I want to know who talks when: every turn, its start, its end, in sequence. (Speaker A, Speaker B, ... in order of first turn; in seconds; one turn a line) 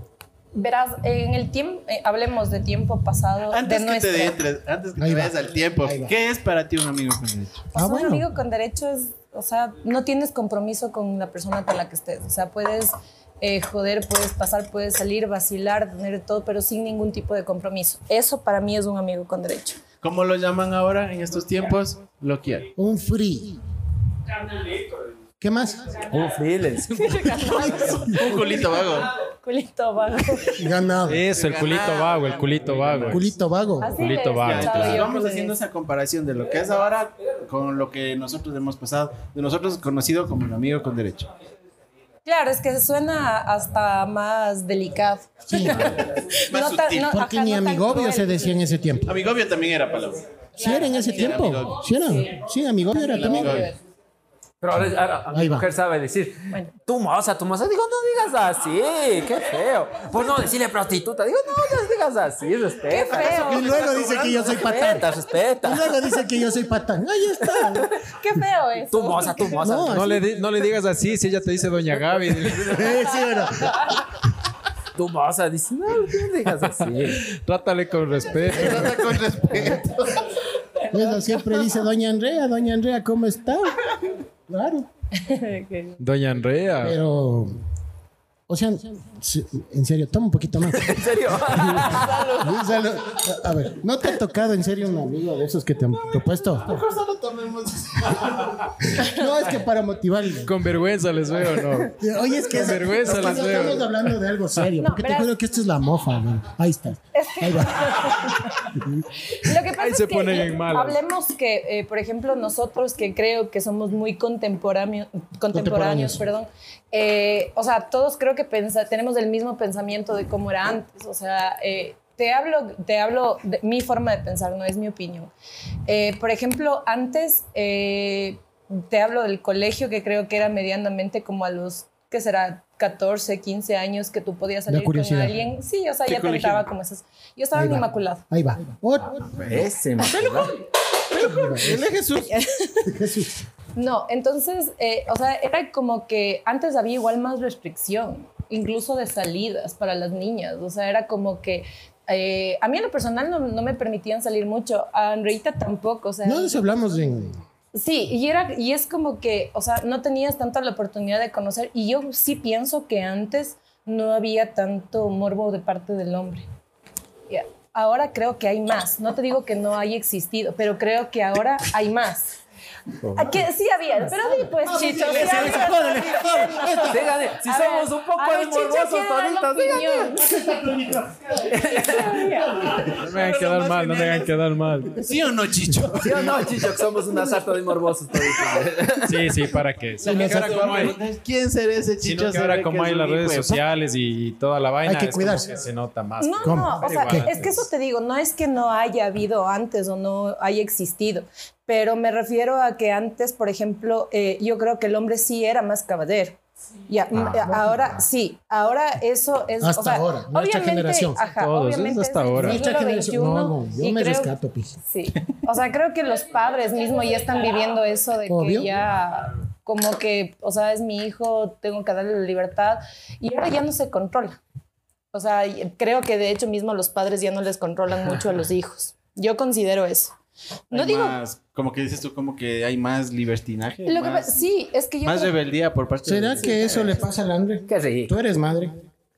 Speaker A: 0.5-4.4
Speaker B: 3.5-7.6
Speaker C: 5.0-6.1
Speaker A: 7.7-19.8
Speaker C: 7.7-8.3
Speaker B: 20.0-22.7
Speaker C: 22.8-23.6
Speaker C: 25.4-26.1
Speaker D: 26.1-27.2
Speaker A: 26.9-28.5
Speaker C: 27.4-28.5
Speaker B: 27.5-29.1
Speaker A: 29.2-30.6
Speaker C: 30.6-31.2
Speaker E: 31.1-33.3
Speaker B: 31.3-33.2
Speaker C: 33.1-34.0
Speaker A: 33.8-35.5
Speaker E: 33.9-35.0
Speaker B: 34.4-41.3
Speaker A: 42.2-48.6
Speaker C: 45.5-46.0
Speaker B: 46.5-47.1
Speaker C: 47.0-49.1
Speaker B: 49.0-51.9
Speaker C: 50.6-53.7
Speaker A: 50.6-52.3
Speaker A: 52.9-53.8
Speaker B: 53.1-53.7
Speaker D: 54.6-63.8
Speaker C: 55.3-55.7
Speaker A: 62.9-63.8
Speaker C: 63.2-67.9
Speaker B: 63.4-64.5
Speaker D: 64.4-66.0
Speaker A: 68.1-69.6
Speaker D: 68.9-70.2
Speaker C: 69.6-70.3
Speaker E: 69.9-72.9
Speaker C: 72.6-73.9
Speaker D: 74.9-77.2
Speaker E: 77.2-79.0
Speaker B: 78.5-80.2
Speaker C: 80.9-84.0
Speaker C: 84.5-84.9
Speaker A: 85.2-86.0
Speaker E: 86.0-87.0
Speaker C: 86.8-87.5
Speaker C: 88.5-96.8
Speaker D: 90.7-92.3
Speaker A: 91.9-92.5
Speaker B: 96.1-98.7
Speaker C: 98.9-100.5
Speaker E: 100.4-102.0
Speaker C: 101.9-109.0
Speaker E: 102.5-103.9
Speaker A: 104.8-105.3
Speaker A: 107.1-108.5
Speaker A: 109.3-125.3
Speaker E: 109.7-111.0
Speaker C: 115.5-116.2
Speaker A: 125.9-138.2
Speaker C: 134.7-135.4
Speaker B: 136.1-136.7
Speaker C: 137.5-139.3
Speaker B: 139.3-139.6
Speaker D: 139.4-140.6
Speaker A: 140.2-140.5
Speaker B: 141.1-142.3
Speaker C: 141.2-141.8
Speaker A: 142.2-142.9
Speaker C: 142.8-143.4
Speaker A: 143.7-156.6
Speaker C: 156.2-157.4
Speaker A: 157.7-166.4
Speaker A: 167.3-172.4
Speaker D: 173.0-173.3
Speaker A: 173.1-180.4
Speaker C: 174.1-177.0
Speaker B: 175.0-175.7
Speaker D: 176.9-180.3
Speaker C: 180.4-181.2
Speaker D: 181.4-182.3
Speaker A: 181.6-182.8
Speaker B: 182.8-184.3
Speaker E: 182.9-185.0
Speaker B: 185.0-186.5
Speaker D: 186.0-189.3
Speaker E: 189.0-191.0
Speaker B: 190.0-193.6
Speaker C: 190.0-190.8
Speaker E: 192.0-197.6
Speaker C: 194.8-195.6
Speaker A: 196.2-214.3
Speaker C: 196.4-197.3
Speaker C: 207.2-207.7
Speaker C: 209.6-211.2
Speaker E: 211.3-212.6
Speaker C: 212.3-214.8
Speaker A: 214.8-224.4
Speaker C: 218.3-218.7
Speaker A: 225.1-230.1
Speaker A: 230.7-231.2
Speaker B: 230.7-234.5
Speaker A: 233.8-235.3
Speaker B: 235.0-237.0
Speaker C: 236.0-238.8
Speaker D: 237.7-238.1